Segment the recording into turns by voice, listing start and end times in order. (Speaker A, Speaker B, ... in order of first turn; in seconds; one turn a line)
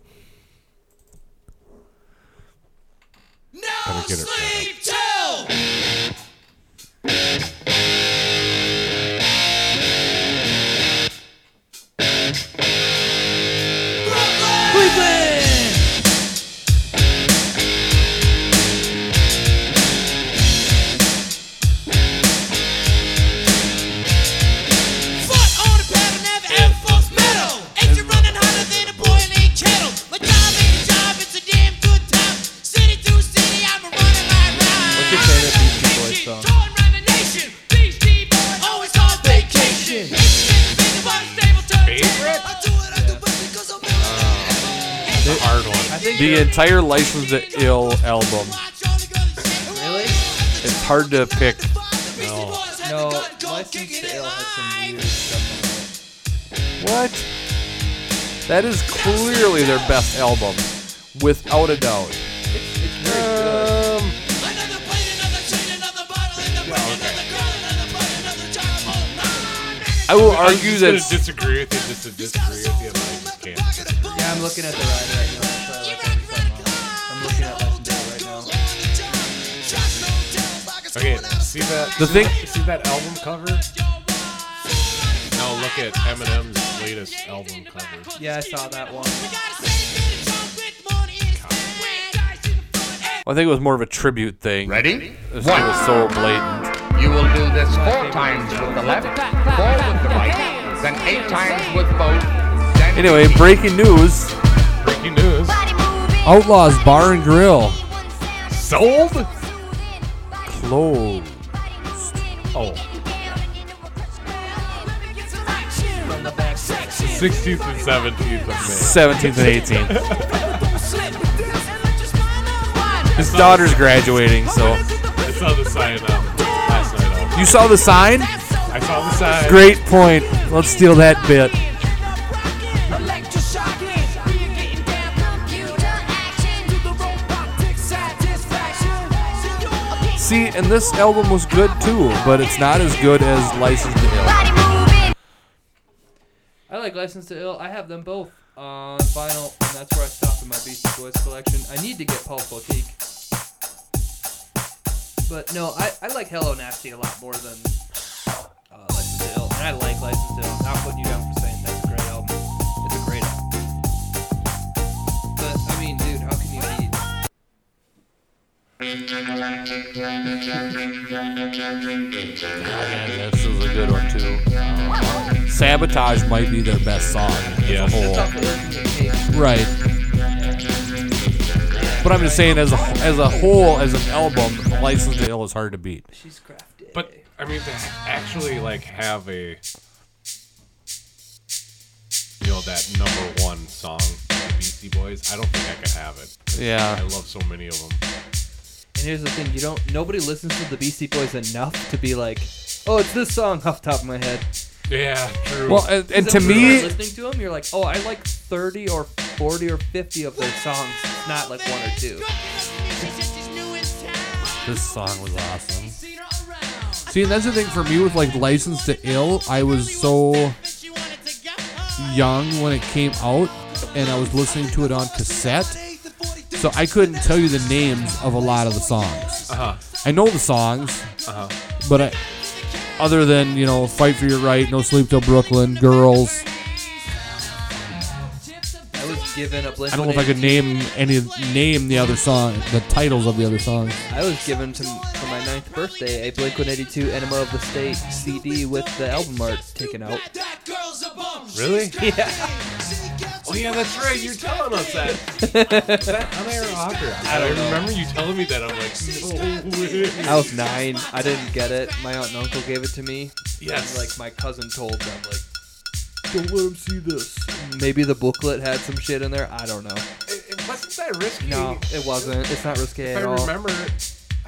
Speaker A: 3.6-5.5
Speaker B: 3.9-4.7
Speaker A: 14.2-15.1
Speaker C: 14.7-15.9
Speaker A: 25.2-44.4
Speaker C: 27.8-29.3
Speaker C: 34.9-36.5
Speaker C: 39.2-40.2
Speaker B: 41.4-42.5
Speaker C: 42.9-43.2
Speaker B: 44.0-46.0
Speaker D: 44.1-44.5
Speaker C: 45.2-46.5
Speaker D: 46.1-48.6
Speaker C: 49.7-50.2
Speaker A: 50.0-50.5
Speaker D: 50.6-51.7
Speaker B: 52.2-52.7
Speaker C: 52.8-55.9
Speaker D: 56.8-57.3
Speaker D: 58.5-62.2
Speaker A: 59.3-59.7
Speaker C: 62.5-63.8
Speaker B: 63.0-64.2
Speaker A: 64.4-69.3
Speaker B: 66.6-67.2
Speaker D: 70.1-71.2
Speaker B: 70.1-74.6
Speaker C: 74.2-78.5
Speaker B: 80.9-83.7
Speaker D: 82.0-82.4
Speaker B: 85.3-88.1
Speaker C: 88.2-89.4
Speaker A: 89.3-91.2
Speaker B: 91.3-91.8
Speaker A: 92.0-93.0
Speaker D: 93.3-96.7
Speaker E: 94.7-95.8
Speaker E: 96.9-103.6
Speaker C: 97.7-99.2
Speaker D: 102.9-104.3
Speaker B: 104.8-105.6
Speaker D: 106.2-107.8
Speaker B: 108.5-109.3
Speaker D: 110.5-112.2
Speaker B: 112.5-112.8
Speaker A: 115.3-117.6
Speaker C: 116.0-117.3
Speaker B: 117.0-120.7
Speaker D: 118.6-120.0
Speaker A: 120.7-121.5
Speaker A: 122.4-123.0
Speaker D: 123.2-124.8
Speaker B: 123.2-127.5
Speaker D: 127.3-128.3
Speaker B: 128.7-129.8
Speaker D: 129.4-131.6
Speaker A: 132.4-140.2
Speaker D: 140.2-144.5
Speaker C: 146.7-153.0
Speaker C: 155.3-157.8
Speaker C: 158.7-163.4
Speaker C: 165.4-167.0
Speaker D: 172.6-174.5
Speaker B: 174.6-175.3
Speaker D: 175.4-178.3
Speaker B: 177.6-178.2
Speaker C: 177.7-179.3
Speaker D: 179.3-179.7
Speaker C: 181.8-183.4
Speaker D: 182.0-186.1
Speaker C: 186.1-187.2
Speaker B: 186.9-189.6
Speaker B: 192.4-198.0
Speaker D: 196.6-197.0
Speaker C: 198.9-204.5
Speaker B: 204.9-206.8
Speaker D: 205.7-206.9
Speaker C: 206.1-212.3
Speaker A: 212.4-214.6
Speaker D: 214.6-216.0
Speaker A: 216.6-217.0
Speaker D: 217.1-220.6
Speaker D: 222.0-225.8
Speaker D: 226.6-229.4
Speaker B: 229.5-229.8
Speaker D: 230.0-231.1
Speaker B: 231.3-231.6
Speaker D: 231.8-232.2
Speaker D: 233.0-236.4
Speaker C: 238.9-240.8
Speaker D: 239.9-244.0
Speaker C: 244.1-250.2
Speaker B: 251.5-252.0
Speaker C: 252.0-252.5
Speaker B: 253.4-260.5
Speaker C: 255.4-256.2
Speaker C: 257.2-257.9
Speaker C: 260.2-265.4
Speaker B: 263.6-264.2
Speaker C: 266.3-270.1
Speaker B: 270.3-274.0
Speaker C: 271.4-273.5